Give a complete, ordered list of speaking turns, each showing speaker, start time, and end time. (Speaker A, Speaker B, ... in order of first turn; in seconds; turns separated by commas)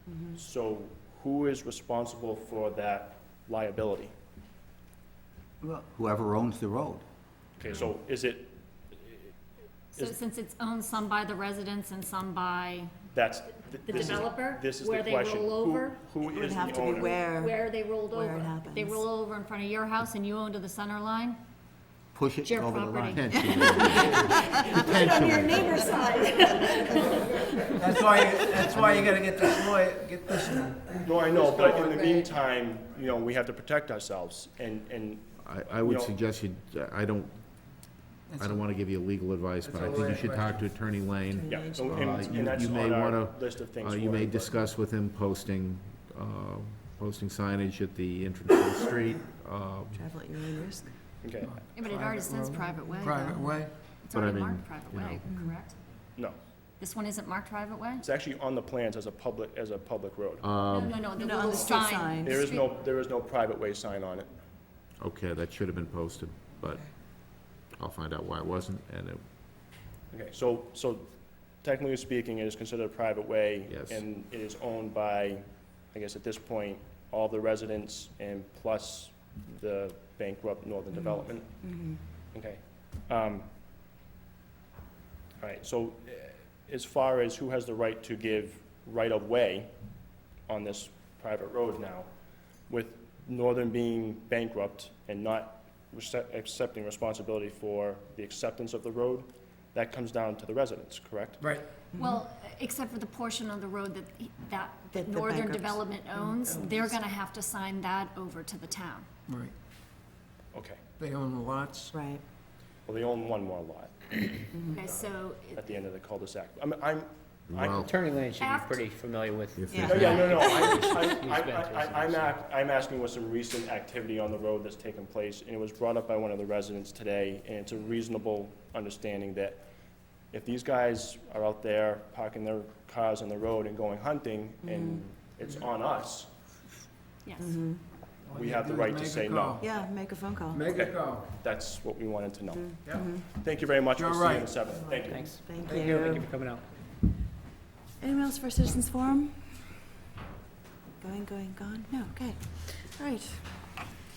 Speaker A: 0.1-0.4, Speaker B: 0.3-4.1, Speaker C: 5.6-7.0, Speaker B: 7.6-9.3, Speaker D: 9.9-12.9, Speaker B: 13.1-17.2, Speaker D: 13.9-16.0, Speaker A: 16.2-19.1, Speaker D: 16.8-21.4, Speaker C: 22.1-23.2, Speaker D: 22.4-27.5, Speaker E: 23.1-25.9, Speaker A: 23.3-24.8, Speaker F: 27.8-31.9, Speaker D: 28.4-28.7, Speaker B: 31.0-36.1, Speaker E: 35.4-37.6, Speaker F: 38.3-38.6, Speaker E: 38.4-50.1, Speaker F: 39.6-40.7, Speaker A: 41.3-42.1, Speaker B: 41.5-44.6, Speaker A: 49.9-51.0, Speaker B: 51.2-51.5, Speaker F: 51.5-53.7, Speaker D: 51.8-55.8, Speaker E: 54.1-55.2, Speaker A: 55.3-55.6, Speaker D: 56.8-58.1, Speaker B: 58.0-60.5, Speaker E: 60.4-61.0, Speaker D: 60.7-62.7, Speaker A: 61.1-62.5, Speaker B: 61.3-64.3, Speaker E: 65.0-69.2, Speaker B: 70.1-81.7, Speaker E: 73.7-74.0, Speaker A: 80.9-82.0, Speaker B: 82.3-83.5, Speaker B: 85.4-89.7, Speaker B: 90.5-92.1, Speaker B: 92.7-101.5, Speaker F: 101.4-101.7, Speaker A: 101.9-102.2, Speaker D: 102.0-109.1, Speaker A: 104.9-107.0, Speaker F: 109.3-109.5, Speaker B: 110.5-110.8, Speaker F: 111.0-112.0, Speaker A: 111.9-112.2, Speaker B: 112.9-117.9, Speaker A: 114.5-114.8, Speaker D: 114.7-115.7, Speaker E: 117.5-118.0, Speaker G: 117.8-122.3, Speaker D: 118.4-118.8, Speaker E: 119.6-120.3, Speaker A: 119.7-120.2, Speaker B: 119.8-129.7, Speaker B: 130.3-136.3, Speaker A: 134.6-135.0, Speaker D: 137.2-137.5, Speaker A: 137.4-137.8, Speaker F: 138.3-139.6, Speaker B: 138.3-139.7, Speaker A: 139.6-140.6, Speaker F: 140.5-141.3, Speaker B: 140.7-145.4, Speaker A: 142.5-143.3, Speaker F: 143.9-144.5, Speaker G: 145.1-146.7, Speaker A: 145.4-146.3, Speaker A: 148.0-149.4, Speaker A: 151.0-153.5